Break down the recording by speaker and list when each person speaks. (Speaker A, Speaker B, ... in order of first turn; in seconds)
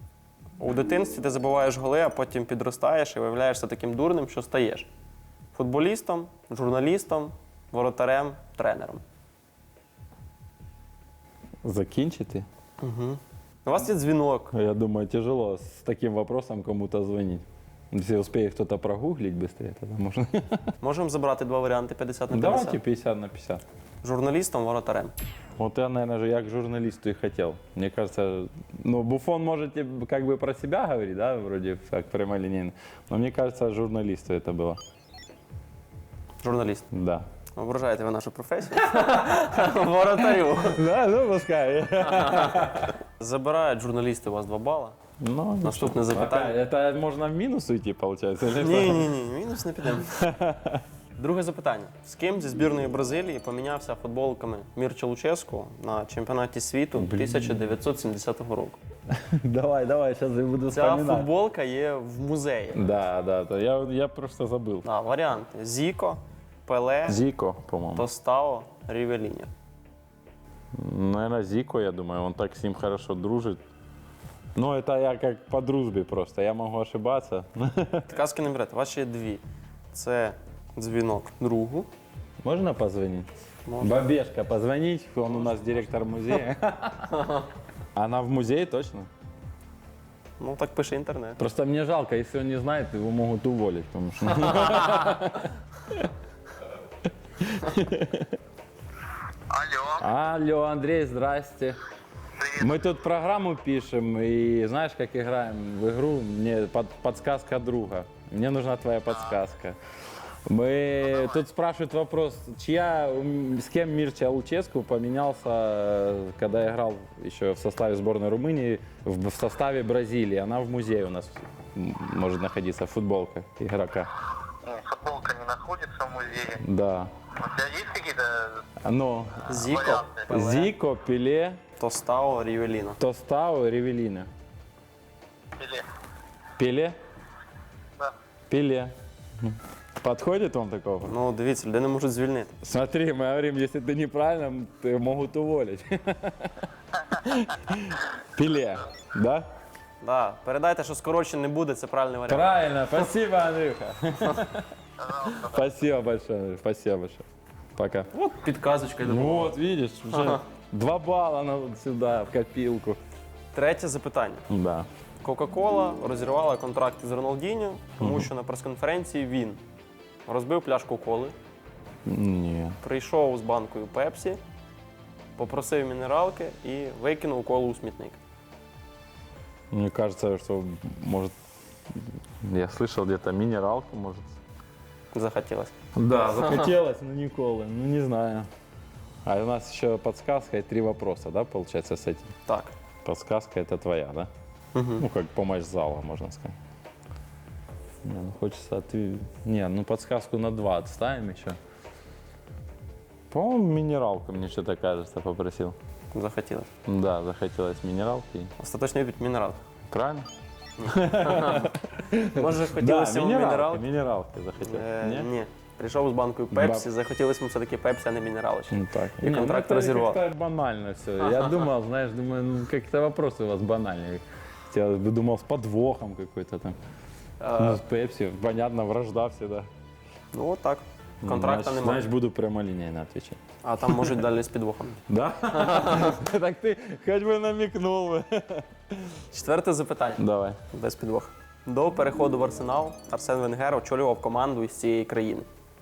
Speaker A: 0.6-4.9, 5.5-9.0, 12.8-14.5, 20.8-22.8, 24.0-25.1, 36.4-36.9, 37.5-40.8, 42.0-45.0, 45.6-46.5, 48.5-50.2, 51.2-58.8, 60.7-62.9, 64.8-67.2, 68.0-69.5, 78.1-81.9, 83.7-84.0, 87.1-87.5, 90.4-91.4, 129.5-130.7, 131.8-133.0, 141.1-142.5, 150.0-152.5, 158.1-159.6, 160.1-160.4, 163.5-164.5, 165.2-169.6, 170.3-171.3, 172.8-174.4, 175.4-178.2, 185.1-185.7, 186.4-186.7, 192.5-192.7, 194.7-195.1, 206.1-206.7, 208.6-209.6, 210.8-211.7, 212.3-213.8, 214.6-220.2, 221.2-221.6, 227.4-227.8, 230.3-232.1, 233.6-235.0, 235.5-236.2, 239.3-245.5
Speaker B: 11.6-12.5, 14.5-20.6, 22.3-23.6, 25.6-34.8, 36.9-37.3, 38.8-39.7, 40.3-43.0, 45.2-49.1, 50.0-50.8, 57.0-57.8, 59.1-61.3, 62.7-64.9, 67.1-68.1, 70.7-73.6, 74.6-78.1, 82.4-87.2, 88.0-89.1, 91.4-96.1, 97.4-98.4, 100.0-101.8, 102.5-109.8, 110.5-124.1, 126.5-127.1, 128.8-131.6, 133.0-134.3, 136.6-137.0, 138.5-141.2, 142.6-149.5, 152.3-157.2, 157.8-158.1, 159.0-163.0, 164.5-164.9, 168.0-168.3, 172.1-172.8, 179.7-181.3, 182.4-184.3, 185.9-188.5, 189.2-192.3, 193.1-194.3, 195.0-196.6, 198.0-201.6, 203.3-205.8, 206.9-208.5, 209.9-210.3, 210.8-215.3, 216.5-216.8, 218.7-226.8, 227.6-229.7, 231.2-234.2, 235.1-239.2, 240.2-240.6
Speaker C: 99.5-100.0, 124.7-126.5, 127.5-128.4, 135.6-135.8